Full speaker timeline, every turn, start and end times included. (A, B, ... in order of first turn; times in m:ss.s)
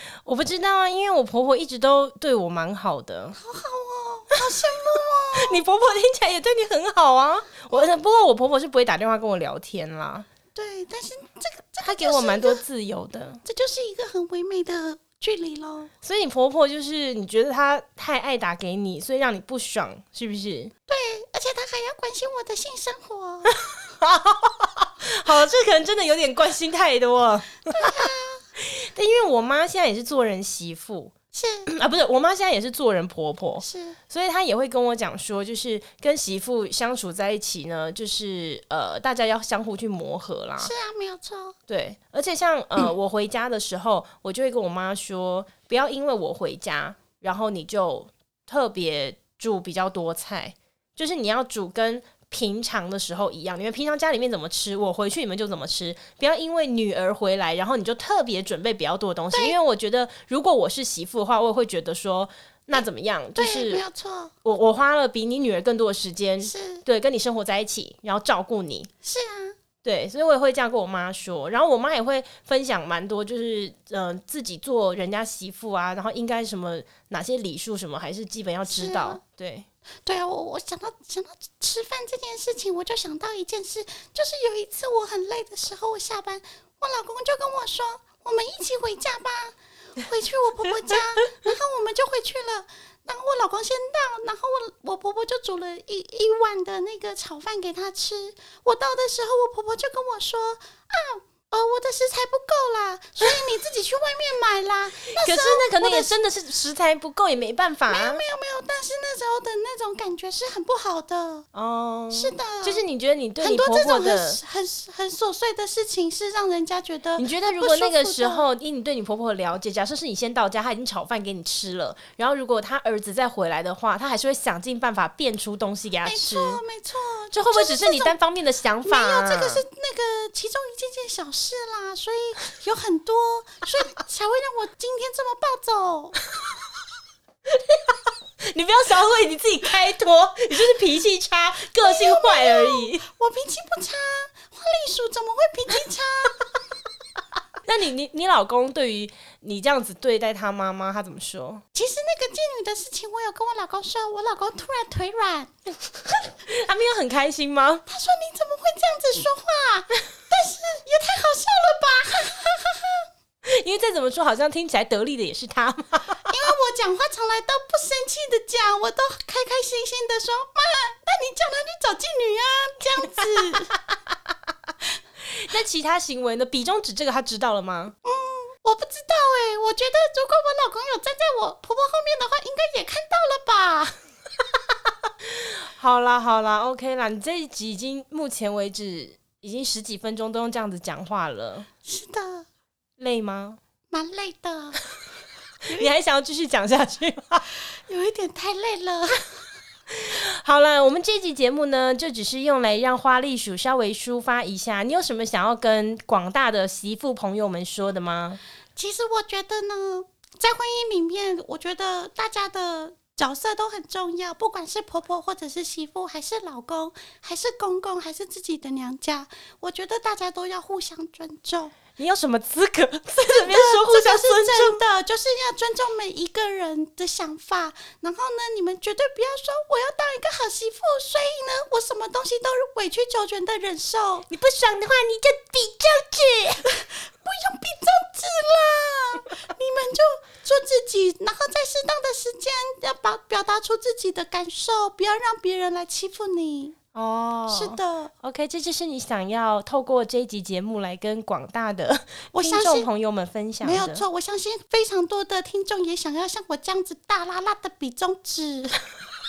0:00.2-0:03.4 A
0:03.4-0:05.6 B
0:05.4-0:10.3 A
0:10.6-0:12.6 B
0:11.8-0:13.4 A
0:13.4-0:15.9 B
0:16.0-0:20.7 A
0:20.9-0:23.7 B
0:24.0-0:27.9 A
0:27.7-0:28.4 B
0:28.6-0:31.1 A
0:31.3-0:31.7 B
0:31.7-0:40.7 A
0:33.6-0:34.0 B
0:40.6-0:41.6 B
0:41.7-1:03.8 A
1:03.4-1:04.3 B
1:04.4-1:08.9 A
1:06.4-1:06.8 B
1:09.0-1:09.6 B
1:09.8-1:19.7 A
1:18.7-1:19.2 B
1:20.1-1:46.1 B
1:45.2-1:48.2 A
1:47.9-1:51.5 B
1:51.5-1:54.4 A
1:52.1-1:52.8 B
1:53.4-1:58.5 B
1:57.2-2:06.6 A
2:06.0-2:08.2 B
2:07.3-2:09.6 A
2:08.8-2:16.2 B
2:17.6-2:17.8 A
2:18.5-2:23.0 A
2:21.8-2:26.5 B
2:27.6-2:31.6 A
2:31.7-2:35.5 B
2:36.4-2:37.8 A
2:37.9-2:43.1 B
2:43.5-2:46.3 A
2:46.3-2:53.8 B
2:55.4-2:58.0 A
2:58.0-3:04.0 B
3:05.3-3:11.7 A
3:11.9-3:12.5 B
3:13.0-3:13.6 A
3:13.9-3:14.8 B
3:15.7-3:17.4 A
3:17.7-3:19.4 B
3:20.0-3:28.4 A
3:28.8-3:41.8 B
3:42.0-3:44.8 A
3:43.3-3:54.3 B
3:54.3-3:56.6 A
3:56.6-4:06.8 B
4:06.9-4:14.0 A
4:07.5-4:08.1 B
4:12.3-4:12.9 B
4:13.6-4:18.8 B